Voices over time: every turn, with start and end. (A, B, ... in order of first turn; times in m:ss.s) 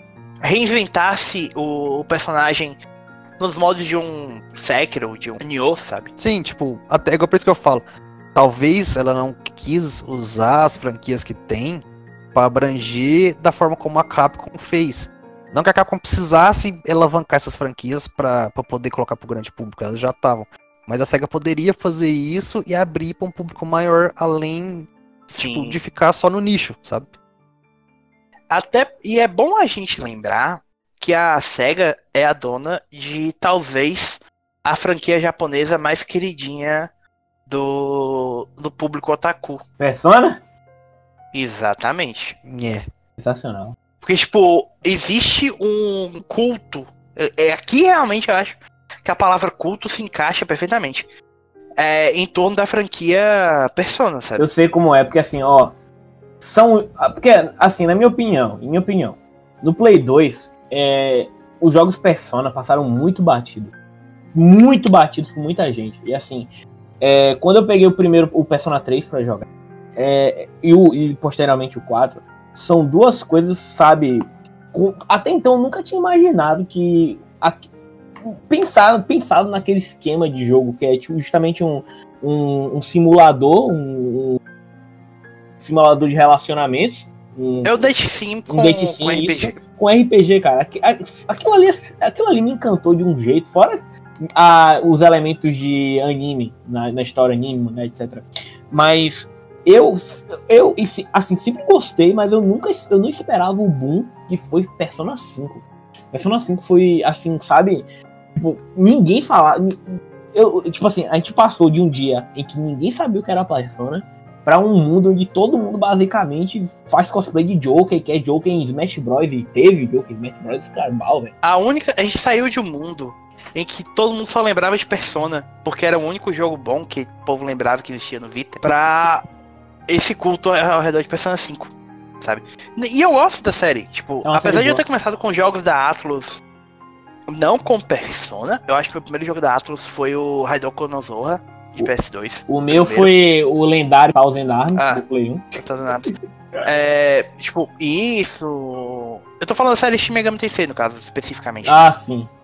0:00.4-0:02.8 A
0:03.4-0:06.1 A
0:06.2-0:07.8 B
0:08.3-0:27.1 B
0:25.3-0:25.8 A
0:28.5-0:36.9 A
0:37.5-0:39.6 A
0:39.8-0:40.4 C
0:41.3-0:42.4 A
0:42.4-0:42.8 B
0:43.2-0:43.8 C
0:44.0-0:51.1 A
0:51.8-0:54.5 A
0:54.4-0:55.7 C
0:56.4-1:03.7 C
1:04.3-1:06.5 C
1:07.0-1:17.6 C
1:18.2-1:24.4 C
1:25.6-1:27.9 C
1:27.6-1:29.6 A
1:28.5-1:33.8 C
1:34.3-1:49.8 C
1:50.3-2:01.3 C
2:01.4-2:09.2 A
2:09.9-2:16.4 A
2:14.2-2:14.8 C
2:17.3-2:23.1 A
2:22.5-2:26.1 C
2:24.8-2:25.0 A
2:25.5-2:26.1 A
2:26.6-2:31.9 A
2:31.6-2:32.3 C